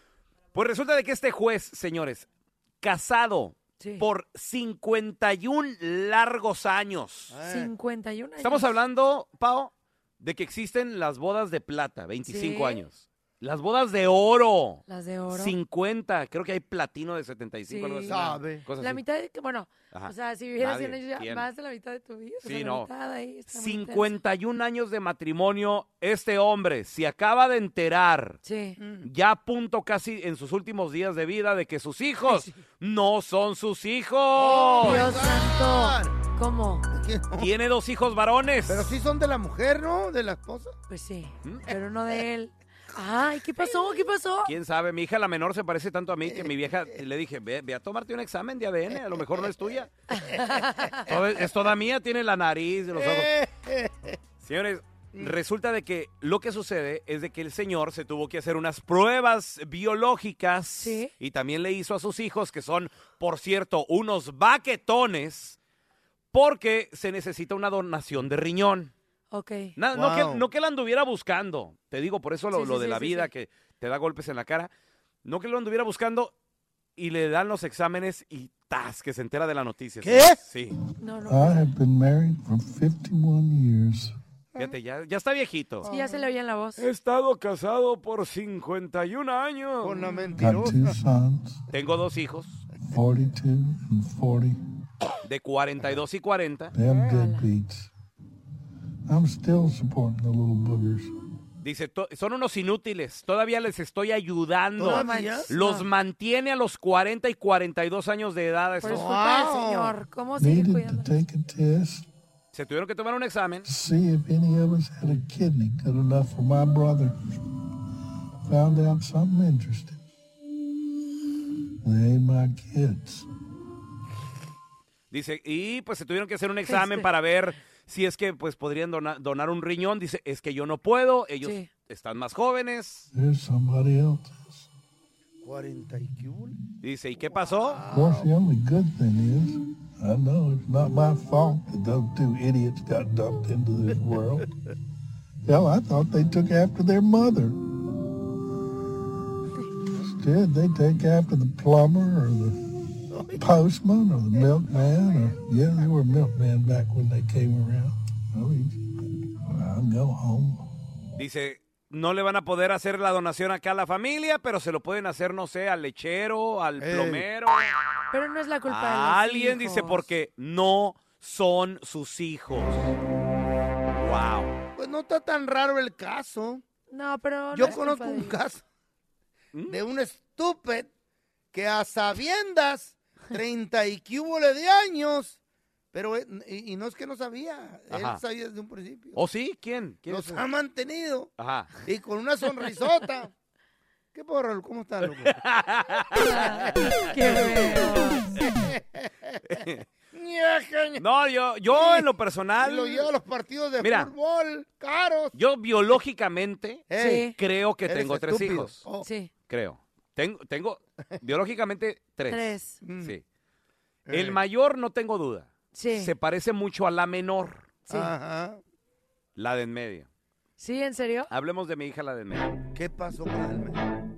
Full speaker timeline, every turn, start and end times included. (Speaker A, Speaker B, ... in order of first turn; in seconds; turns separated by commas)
Speaker A: 0.5-2.3, Speaker A: 2.8-7.3, Speaker B: 3.8-4.1, Speaker C: 7.3-7.7, Speaker B: 7.4-8.7, Speaker A: 8.4-19.0, Speaker B: 12.2-12.8, Speaker B: 14.9-15.6, Speaker B: 17.7-24.2, Speaker C: 18.1-18.6, Speaker A: 19.9-21.5, Speaker A: 22.4-22.9, Speaker A: 23.5-28.4, Speaker B: 28.4-28.8, Speaker C: 28.8-29.1, Speaker A: 29.0-35.1, Speaker B: 32.3-32.5, Speaker C: 34.4-36.1, Speaker B: 34.8-36.9, Speaker C: 36.9-37.5, Speaker A: 37.4-38.9, Speaker C: 38.7-40.8, Speaker B: 40.9-44.5, Speaker A: 41.4-41.7, Speaker A: 44.5-49.9, Speaker C: 48.9-49.7, Speaker B: 50.1-51.1, Speaker C: 50.3-51.2, Speaker A: 51.1-53.3, Speaker C: 53.0-54.2, Speaker A: 54.4-65.6, Speaker B: 60.8-61.1, Speaker A: 66.3-68.9, Speaker B: 69.3-69.7, Speaker A: 69.8-74.7, Speaker C: 69.9-70.5, Speaker B: 72.5-73.3, Speaker A: 75.2-76.3, Speaker A: 77.0-80.8, Speaker C: 80.0-80.4, Speaker B: 81.0-81.6, Speaker D: 81.2-84.2, Speaker A: 84.6-85.9, Speaker B: 85.8-86.8, Speaker C: 85.8-86.3, Speaker A: 86.8-90.1, Speaker C: 89.8-91.0, Speaker D: 90.4-91.6, Speaker A: 91.7-92.6, Speaker D: 92.9-94.6, Speaker A: 95.2-96.7, Speaker D: 96.7-97.9, Speaker B: 96.9-97.4, Speaker D: 99.1-101.1, Speaker A: 101.6-109.1, Speaker C: 104.8-105.5, Speaker B: 104.8-105.9, Speaker B: 108.8-111.1, Speaker C: 108.8-109.9, Speaker D: 110.4-112.1, Speaker A: 112.5-113.7, Speaker D: 113.6-117.2, Speaker D: 118.4-120.0, Speaker D: 121.8-123.3, Speaker A: 125.1-133.1, Speaker B: 126.7-127.1, Speaker B: 131.4-131.7, Speaker D: 133.1-134.7, Speaker C: 135.4-136.6, Speaker A: 136.8-137.8, Speaker C: 137.3-138.3, Speaker D: 137.9-144.5, Speaker D: 145.4-147.6, Speaker D: 150.0-152.6, Speaker C: 153.1-153.4, Speaker D: 153.4-158.8, Speaker C: 154.3-155.3, Speaker D: 159.4-160.7, Speaker A: 161.2-167.6, Speaker C: 166.8-167.2, Speaker B: 168.1-170.1, Speaker A: 168.7-172.9, Speaker A: 174.0-174.6, Speaker C: 174.8-176.6, Speaker B: 176.9-178.4, Speaker C: 177.5-178.6, Speaker C: 179.7-180.9, Speaker C: 181.5-185.4, Speaker C: 185.9-189.2, Speaker A: 187.9-188.2, Speaker A: 189.2-190.4, Speaker C: 190.1-191.3, Speaker A: 191.4-191.7, Speaker C: 191.8-193.3, Speaker C: 194.1-195.3, Speaker A: 195.2-197.5, Speaker B: 196.2-198.3, Speaker C: 197.3-197.8, Speaker C: 198.5-199.4, Speaker A: 199.5-199.8, Speaker C: 200.1-201.0, Speaker A: 201.0-203.1, Speaker C: 201.7-202.0, Speaker C: 202.6-205.4, Speaker A: 203.8-204.1, Speaker A: 205.3-208.8, Speaker C: 206.9-207.3, Speaker B: 206.9-207.4, Speaker C: 207.9-209.1, Speaker B: 209.0-209.3, Speaker A: 209.5-213.2, Speaker B: 212.3-212.8, Speaker C: 212.8-213.1, Speaker C: 214.1-214.4, Speaker A: 214.1-217.8, Speaker B: 215.7-216.1, Speaker C: 217.9-218.6, Speaker A: 219.4-220.1, Speaker B: 220.6-221.3, Speaker A: 221.3-222.6, Speaker C: 222.7-223.8